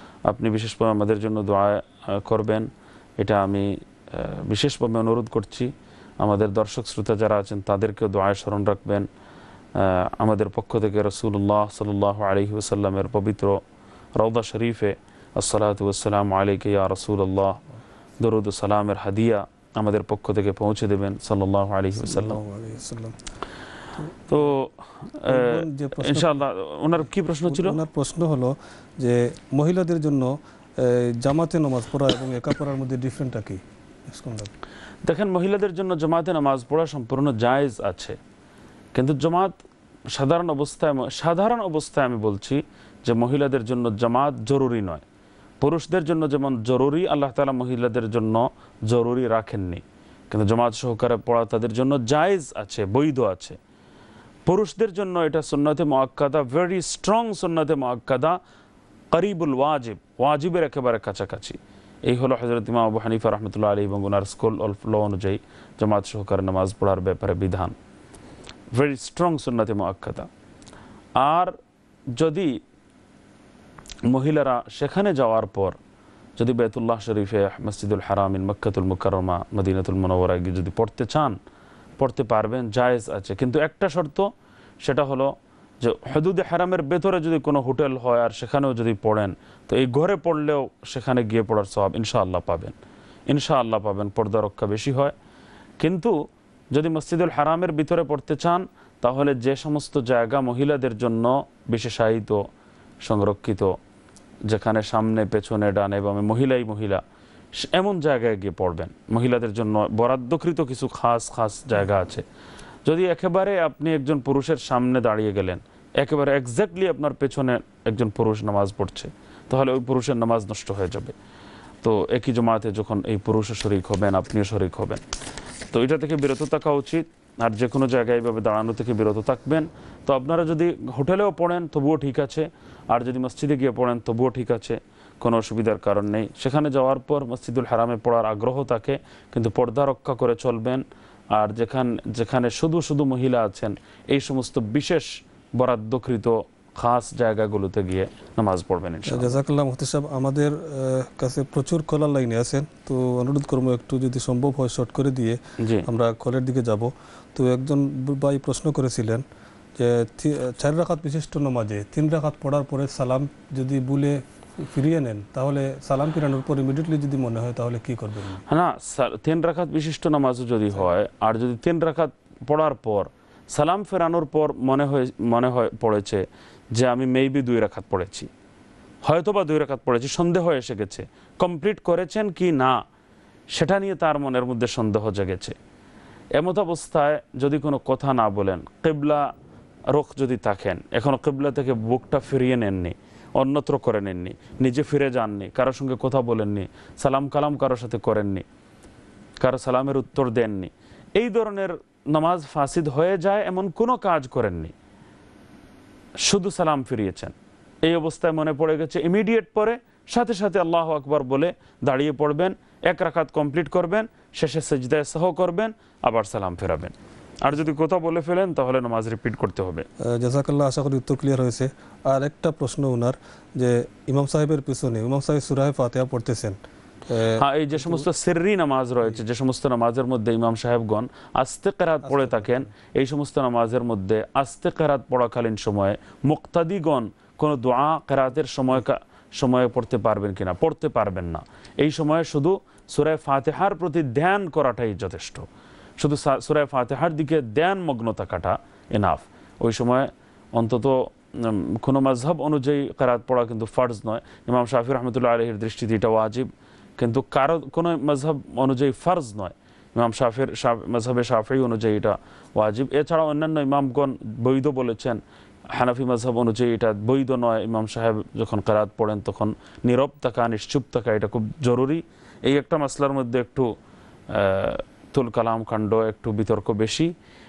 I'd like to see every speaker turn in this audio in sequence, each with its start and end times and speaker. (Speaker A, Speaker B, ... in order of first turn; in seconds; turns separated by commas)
Speaker A: 0.3-9.1, Speaker A: 9.8-13.6, Speaker A: 14.2-17.6, Speaker A: 18.2-22.4, Speaker B: 21.9-23.2, Speaker B: 24.0-24.6, Speaker A: 24.3-27.8, Speaker B: 25.3-26.4, Speaker B: 27.0-34.5, Speaker A: 35.0-38.2, Speaker A: 39.0-39.5, Speaker A: 40.1-45.0, Speaker A: 45.6-53.6, Speaker A: 54.5-58.4, Speaker A: 59.1-67.8, Speaker A: 68.7-70.3, Speaker A: 71.2-71.5, Speaker A: 72.1-72.6, Speaker A: 74.1-75.8, Speaker A: 76.4-81.4, Speaker A: 82.0-84.3, Speaker A: 84.8-92.8, Speaker A: 93.3-95.1, Speaker A: 95.8-96.1, Speaker A: 96.7-102.4, Speaker A: 103.0-103.8, Speaker A: 104.5-107.0, Speaker A: 107.6-112.2, Speaker A: 112.9-121.2, Speaker A: 121.8-125.0, Speaker A: 125.7-149.4, Speaker B: 149.1-159.2, Speaker A: 155.6-155.9, Speaker B: 159.8-168.4, Speaker A: 168.5-178.3, Speaker A: 179.0-182.8, Speaker A: 183.5-185.6, Speaker A: 186.3-189.3, Speaker A: 189.9-198.4, Speaker A: 199.4-204.7, Speaker A: 206.2-219.9, Speaker B: 220.0-228.1, Speaker A: 227.4-245.5, Speaker B: 232.0-232.7, Speaker A: 246.0-265.2, Speaker A: 265.7-273.7, Speaker A: 274.3-277.1